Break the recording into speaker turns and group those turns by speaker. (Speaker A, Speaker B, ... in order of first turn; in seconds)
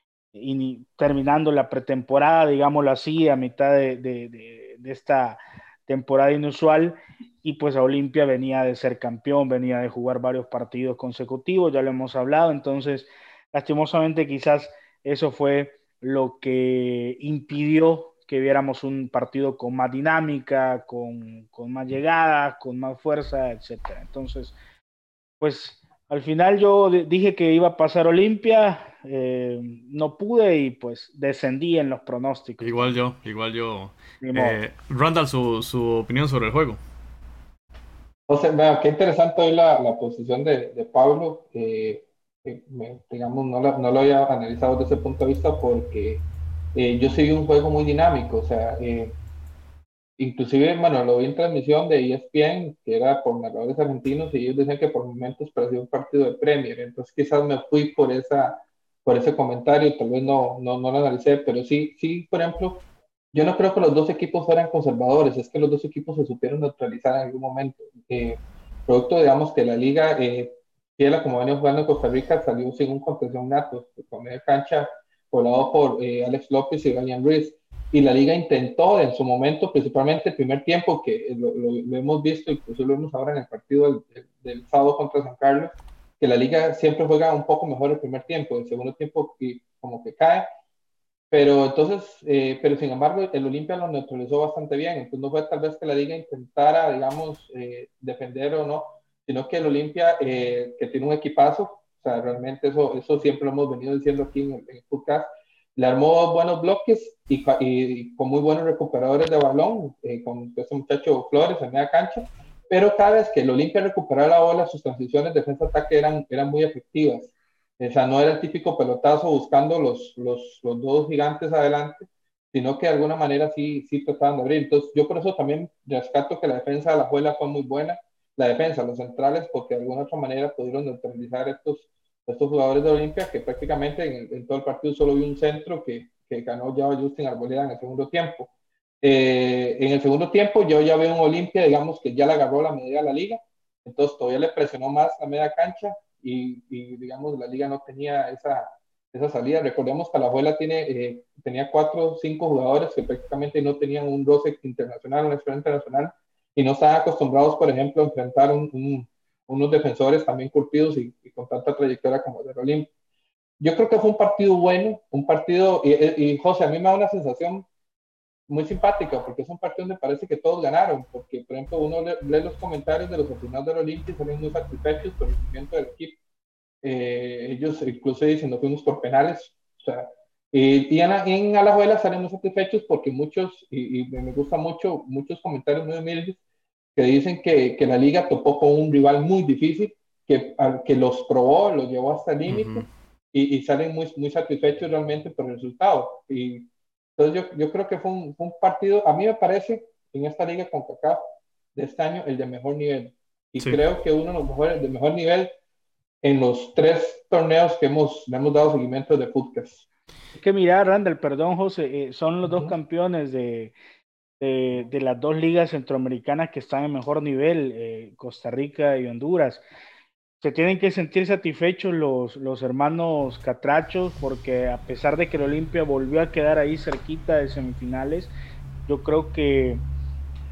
Speaker A: 0.3-24.6, 25.4-33.0, 34.2-34.6, 210.3-213.7, 214.4-219.6, 220.4-228.3, 228.9-229.8
Speaker B: 32.6-36.8, 192.5-192.8
Speaker C: 38.3-49.1, 50.2-90.5, 91.3-138.5, 139.0-162.9, 163.6-167.7, 168.5-176.2, 176.8-186.4, 186.9-201.2, 201.7-205.5, 206.2-209.8, 212.4-212.7